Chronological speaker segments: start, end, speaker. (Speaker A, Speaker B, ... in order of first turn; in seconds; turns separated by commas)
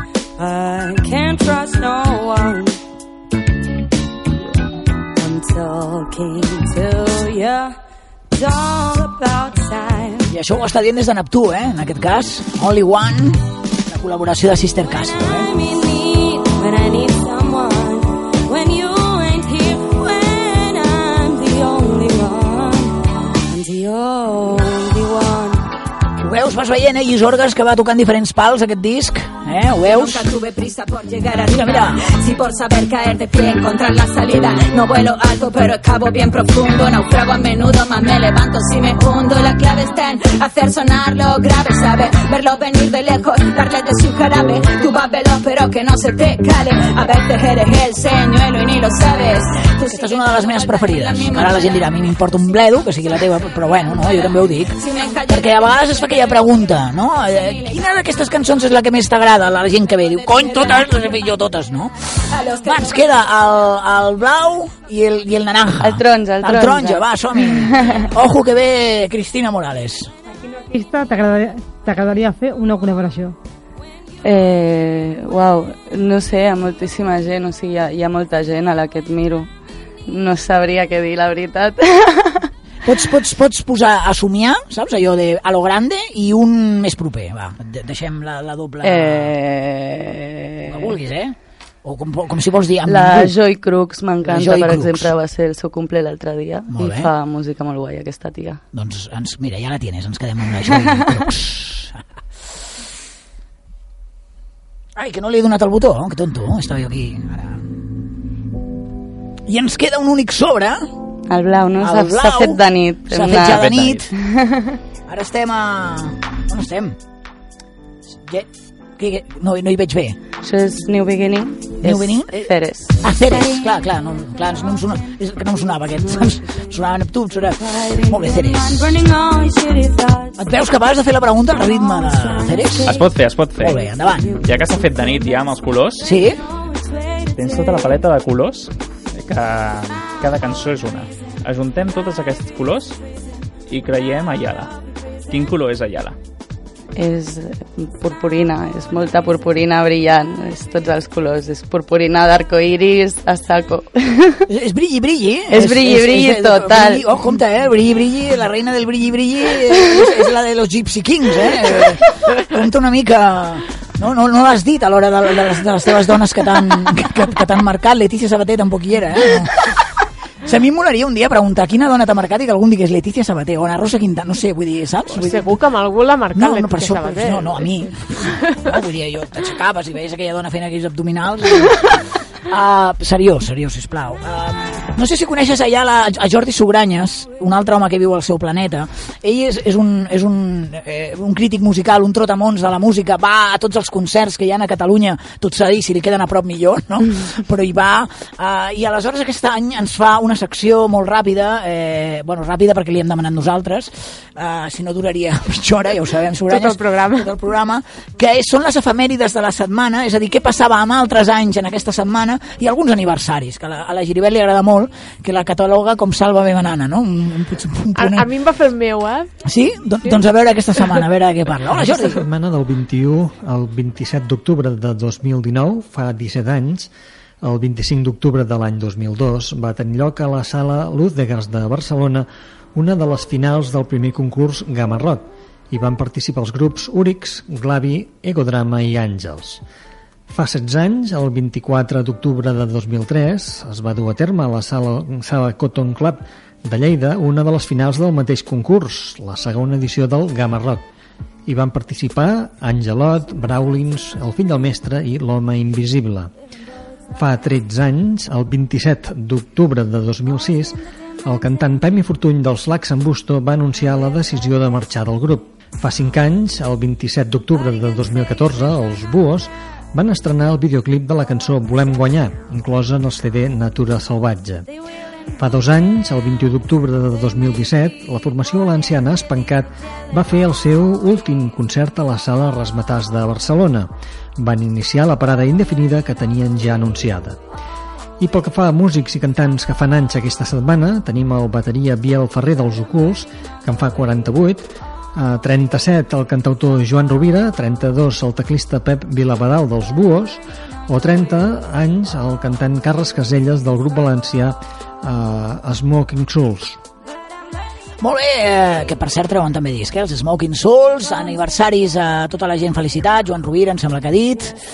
Speaker A: 0.4-2.8, Speaker A: 5.2-7.8, Speaker A: 8.3-10.3, Speaker B: 10.3-15.5, Speaker A: 15.2-25.7, Speaker B: 26.2-30.3, Speaker C: 29.8-51.8, Speaker B: 31.5-32.0, Speaker B: 49.9-70.1, Speaker C: 54.8-56.2, Speaker C: 60.3-60.9, Speaker C: 62.3-63.0, Speaker D: 65.8-68.0, Speaker E: 70.5-73.3, Speaker D: 74.2-79.5, Speaker D: 80.1-82.5, Speaker B: 82.8-89.3, Speaker D: 88.8-90.9, Speaker B: 90.7-93.3, Speaker D: 92.9-98.6, Speaker B: 94.2-95.1, Speaker B: 96.7-97.1, Speaker B: 98.7-102.0, Speaker B: 105.0-107.7, Speaker B: 109.5-110.9, Speaker D: 111.3-113.6, Speaker B: 111.8-114.1, Speaker F: 113.4-114.0, Speaker D: 114.2-114.7, Speaker B: 115.1-117.0, Speaker B: 118.1-120.2, Speaker D: 120.4-122.9, Speaker B: 121.8-129.0, Speaker A: 127.8-130.4, Speaker B: 130.4-134.4, Speaker A: 131.7-132.7, Speaker F: 132.8-133.8, Speaker F: 134.3-136.1, Speaker B: 136.0-136.4, Speaker A: 136.8-137.7, Speaker F: 137.3-143.0, Speaker F: 143.7-144.7, Speaker F: 145.3-146.2, Speaker D: 146.9-154.4, Speaker B: 154.5-169.7, Speaker D: 155.5-157.0, Speaker B: 170.4-175.5, Speaker G: 175.1-177.7, Speaker B: 176.3-218.3, Speaker G: 206.5-207.3, Speaker G: 218.0-219.3, Speaker B: 219.4-222.2, Speaker H: 221.7-226.9, Speaker H: 227.4-239.6, Speaker H: 240.3-250.8, Speaker H: 251.5-256.3, Speaker H: 257.1-274.6, Speaker H: 275.4-287.4, Speaker H: 288.2-306.8, Speaker B: 308.0-314.6